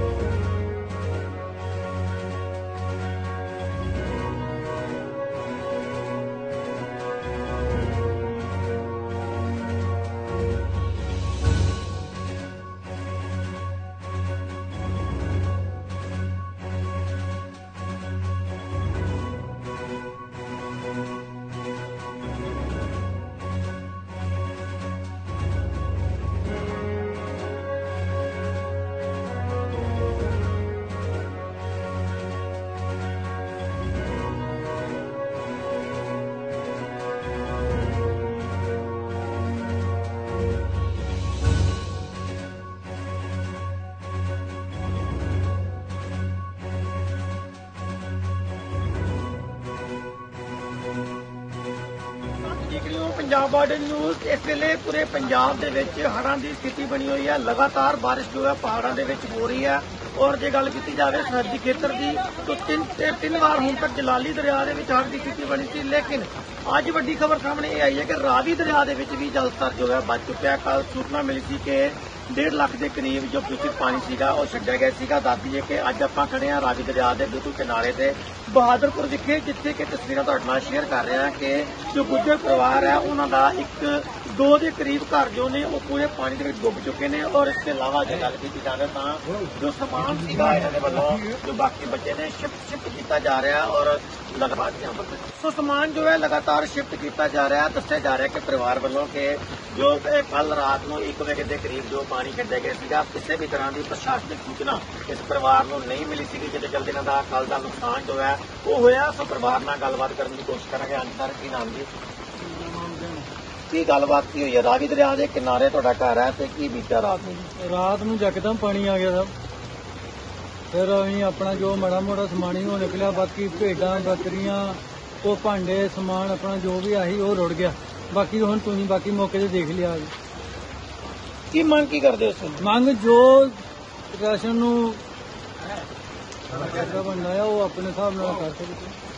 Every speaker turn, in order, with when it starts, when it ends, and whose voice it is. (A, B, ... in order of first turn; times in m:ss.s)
0:52.4-1:51.9 A
1:52.5-1:53.2 B
1:53.7-1:57.5 A
1:57.4-1:59.3 B
2:00.7-2:10.1 B
2:11.5-2:12.6 A
2:12.6-2:15.0 B
2:16.5-2:19.0 B